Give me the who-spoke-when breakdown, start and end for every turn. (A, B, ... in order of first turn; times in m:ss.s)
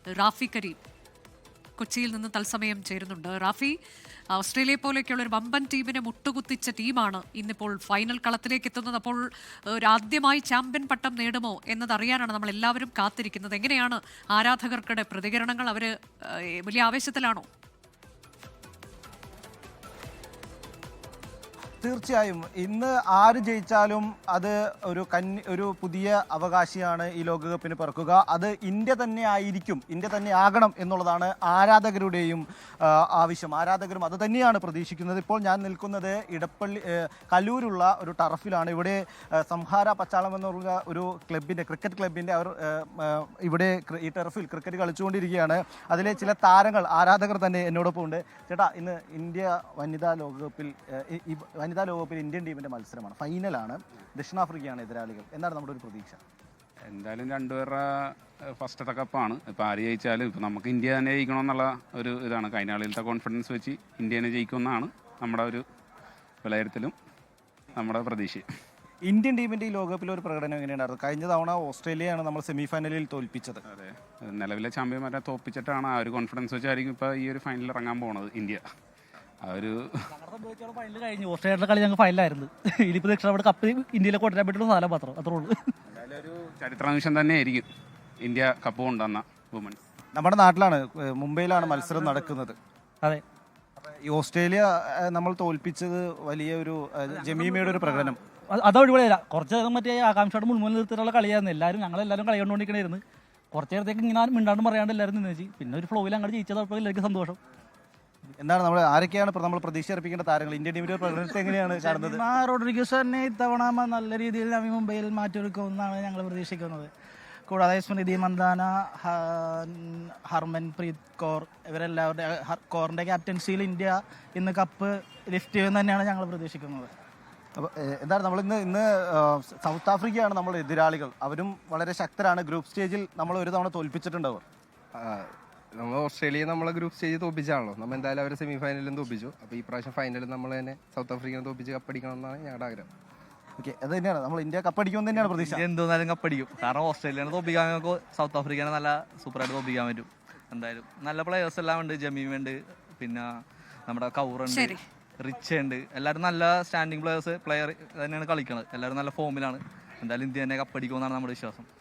0:00.2-0:00.8 A
0:01.8-0:03.7 A
0:04.3-0:17.4 A
0:21.8-0:56.2 B
0:56.9-0:57.8 C
0:58.6-1:05.6 C
1:06.4-1:06.9 C
1:07.8-1:08.4 C
1:09.0-1:13.6 B
1:13.7-1:18.6 C
1:19.4-1:20.0 C
1:20.1-1:25.6 D
1:25.9-1:27.6 C
1:28.2-1:29.8 C
1:30.1-1:32.6 B
1:33.9-1:38.2 B
1:37.2-1:47.4 D
1:48.4-1:52.2 B
1:51.6-1:56.9 E
1:57.5-2:06.9 E
2:07.6-2:14.4 B
2:15.0-2:22.9 F
2:23.6-2:25.6 B
2:25.1-2:33.3 G
2:33.9-2:41.7 G
2:34.5-2:34.8 A